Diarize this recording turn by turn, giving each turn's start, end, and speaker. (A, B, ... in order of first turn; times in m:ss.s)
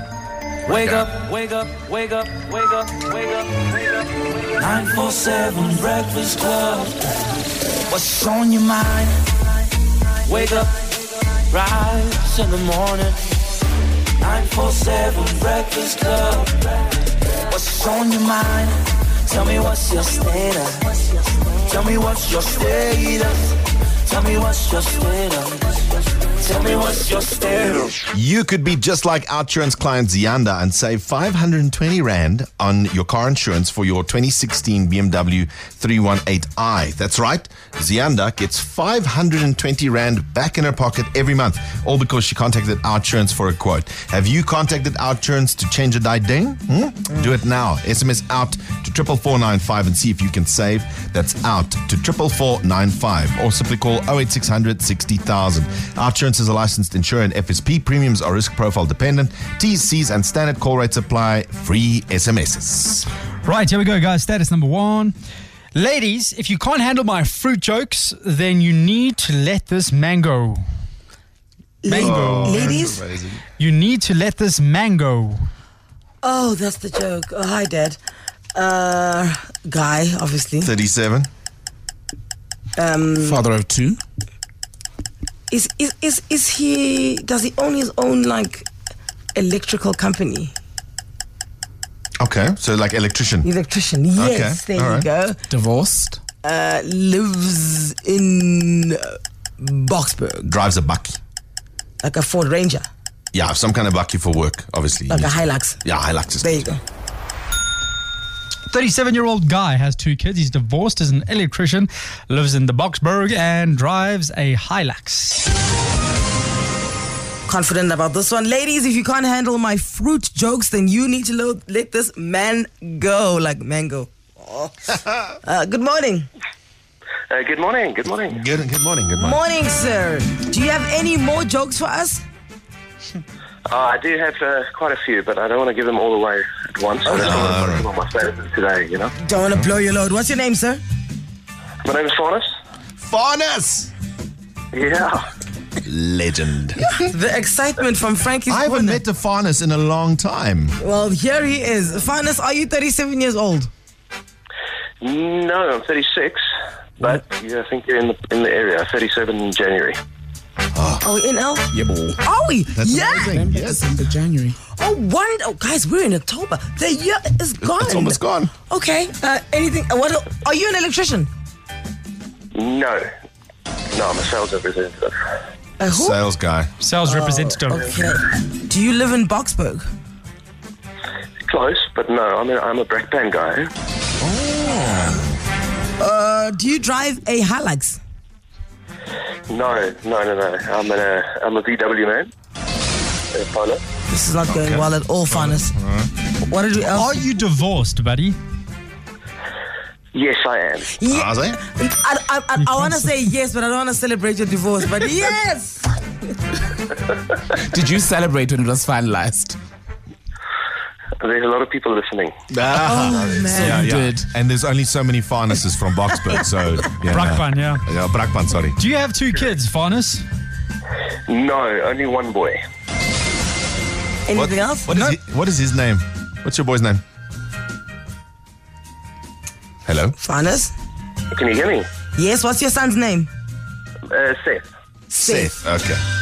0:00.6-0:03.6 A
0:04.6-0:07.0 A
0:07.9-0:09.2 A
0:10.2-0:10.9 A
0:11.5-0:13.2 A
0:14.2-0:16.7 A
0:17.5-0:20.9 A
0:21.7-0:25.8 A
0:26.4-0:28.0 A
0:28.1-1:03.0 B
1:03.4-1:05.2 C
1:05.8-1:10.6 C
1:11.8-1:13.0 D
1:11.8-1:12.9 C
1:11.9-1:13.4 B
1:13.6-1:15.5 C
1:16.2-1:18.0 D
1:18.5-1:20.7 D
1:20.6-1:21.3 B
1:22.8-1:23.4 D
1:23.2-1:24.0 E
1:25.5-1:28.7 D
1:29.3-1:30.5 D
1:32.2-1:33.5 B
1:33.4-1:35.4 D
1:34.2-1:35.1 B
1:35.5-1:36.2 E
1:36.4-1:40.5 D
1:40.5-1:41.2 B
1:42.0-1:42.9 D
1:43.3-1:46.7 B
1:45.1-1:45.8 D
1:46.4-1:46.8 D
1:48.7-1:55.4 C
1:57.4-2:06.3 D
2:07.3-2:08.4 F
2:08.3-2:09.4 B
2:09.2-2:12.2 D
2:13.7-2:19.1 F
2:17.0-2:17.5 D
2:17.2-2:17.9 B
2:19.2-2:20.8 D
2:21.8-2:22.5 F
2:23.0-2:23.9 B
2:24.7-2:25.2 F
2:25.8-2:26.9 B
2:26.8-2:29.0 D
2:28.5-2:30.8 B
2:30.8-2:33.7 D
2:35.0-2:36.4 F
2:37.0-2:40.0 F
2:40.8-2:41.0 B
2:41.0-2:41.7 D
2:41.7-2:42.2 E
2:42.2-2:43.4 D
2:42.8-2:43.9 B
2:43.0-2:44.6 E
2:44.8-2:51.3 D
2:47.6-2:48.5 B
2:52.5-2:53.0 F
2:53.9-2:55.2 F
2:55.8-2:56.2 D
2:55.9-2:56.7 B
2:56.8-2:58.0 C
2:57.0-2:59.8 D
3:01.5-3:03.7 F
3:04.2-3:05.3 B
3:06.0-3:08.0 D
3:09.5-3:12.3 F
3:13.3-3:13.8 F
3:14.1-3:15.7 D
3:14.5-3:16.1 B
3:16.4-3:17.1 D
3:16.9-3:18.4 C
3:20.1-3:20.9 F
3:20.9-3:26.0 D
3:21.1-3:21.6 B
3:27.5-3:29.6 E
3:31.2-3:32.3 F
3:32.5-3:38.8 B
3:32.8-3:33.8 D
3:33.5-3:34.3 E
3:37.1-3:37.9 C
3:38.8-3:40.2 C
3:41.3-3:42.6 F
3:44.3-3:44.9 D
3:44.3-3:47.0 B
3:44.9-3:45.2 C
3:49.8-3:50.2 B
3:50.2-3:50.7 D
3:51.3-3:51.9 F
3:52.1-3:53.3 D
3:54.1-3:54.6 F
3:55.1-3:56.0 B
3:55.1-3:55.6 D